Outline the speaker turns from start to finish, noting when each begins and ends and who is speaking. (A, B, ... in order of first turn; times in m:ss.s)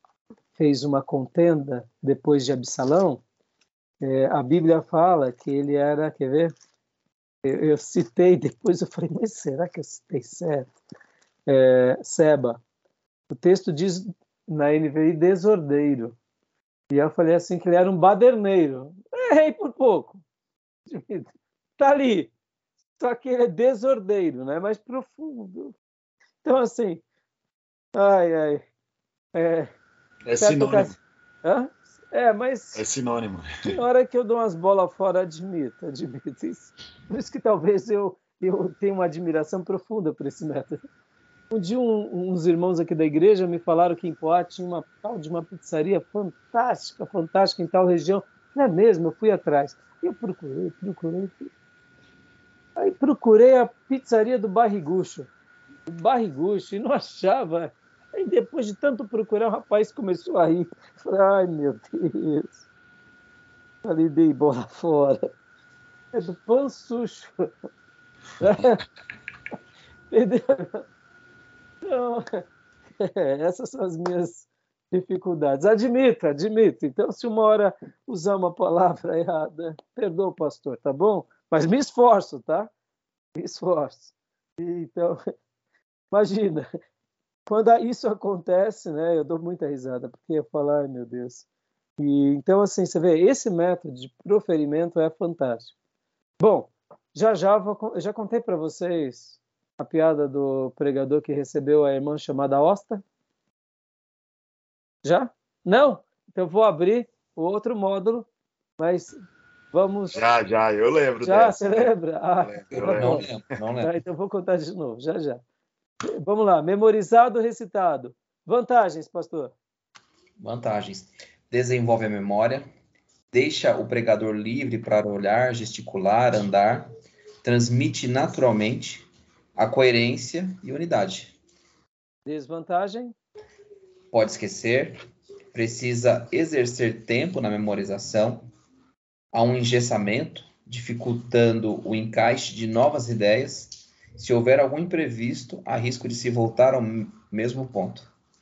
0:00.6-0:03.2 A
0:04.0-0:06.5 A
0:07.4-0:10.7 A
0:11.5-0:12.6 A
0:13.3-0:16.2 A
0:16.9-0:20.2 A
0:20.9-0:21.3 A
0:21.8-0:22.3 A
0:23.0-0:25.8 A
0:26.4-0:27.0 A
0:28.0-0:28.6 A
0:29.3-0:29.7 A
0:30.3-0:31.0 B
0:30.4-0:32.8 A
0:32.8-0:33.5 B
0:33.7-0:40.8 A
0:41.5-0:51.5 A
0:52.8-0:55.3 A
0:55.9-1:02.6 A
1:03.8-1:05.3 A
1:06.1-1:07.3 A
1:08.4-1:08.8 A
1:10.1-1:10.9 A
1:11.8-1:12.4 A
1:13.0-1:22.7 A
1:23.4-1:25.3 A
1:26.1-1:26.7 A
1:27.5-1:31.5 A
1:32.0-1:35.7 A
1:36.4-1:43.0 A
1:45.0-1:49.2 A
1:49.7-1:50.2 A
1:50.1-1:53.3 B
1:51.2-1:53.2 A
1:52.7-1:54.0 C
1:53.8-1:55.4 A
1:56.1-1:59.5 A
2:00.4-2:02.7 C
2:03.3-2:06.9 C
2:07.4-2:11.4 C
2:12.3-2:13.2 A
2:14.1-2:18.5 C
2:19.3-2:28.1 C